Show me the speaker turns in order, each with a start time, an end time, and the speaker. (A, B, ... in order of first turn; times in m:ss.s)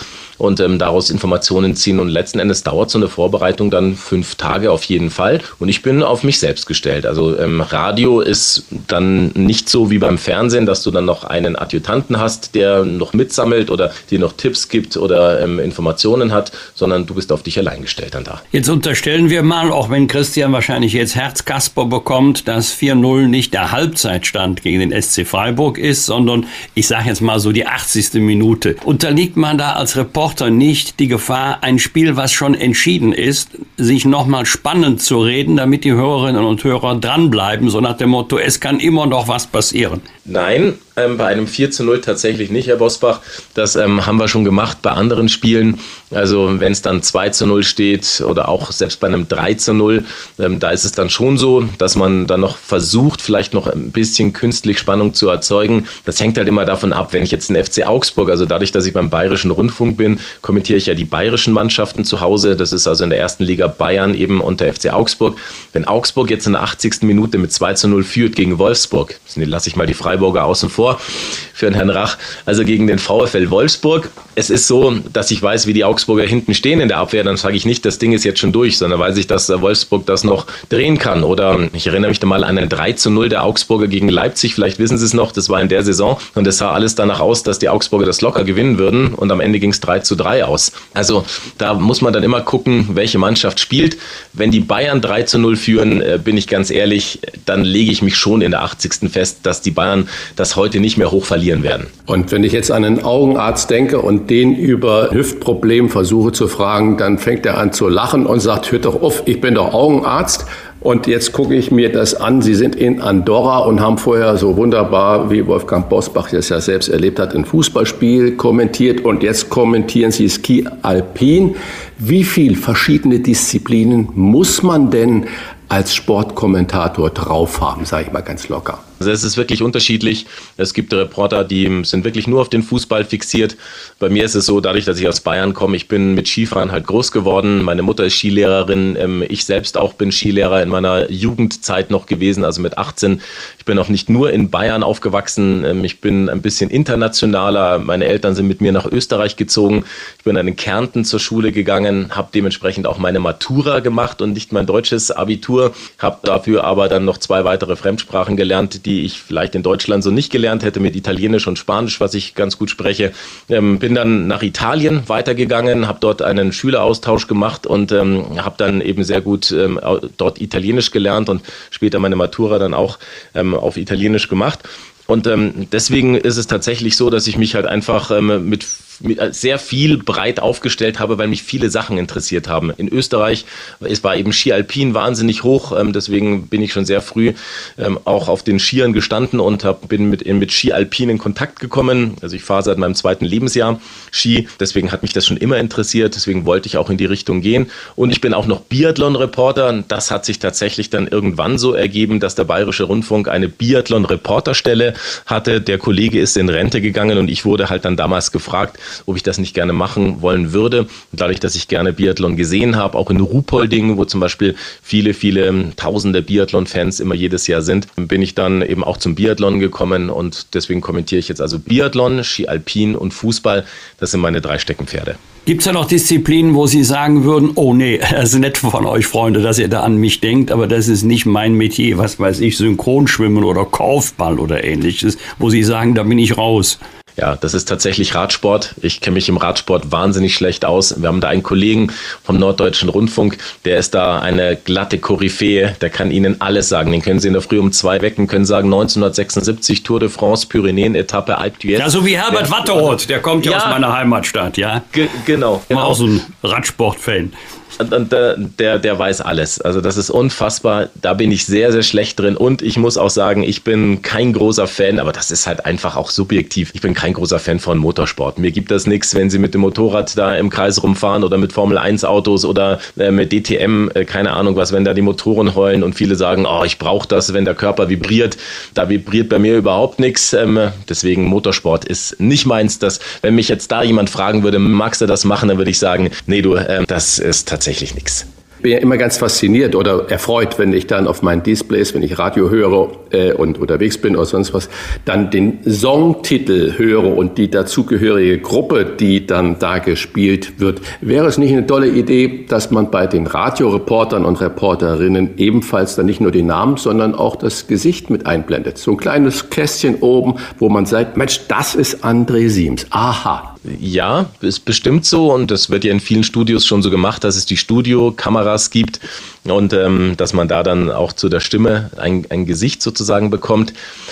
0:00.4-0:18.4 A
0:18.5-0:40.0 B
0:40.2-1:41.9 A
1:42.1-2:08.8 C
2:09.0-3:45.2 A
3:45.4-3:56.8 B
3:57.2-4:13.8 A
4:11.8-4:14.9 B
4:14.9-4:16.0 A
4:15.7-4:17.3 B
4:17.8-4:48.2 A
4:48.6-5:13.5 C
5:13.6-5:23.7 A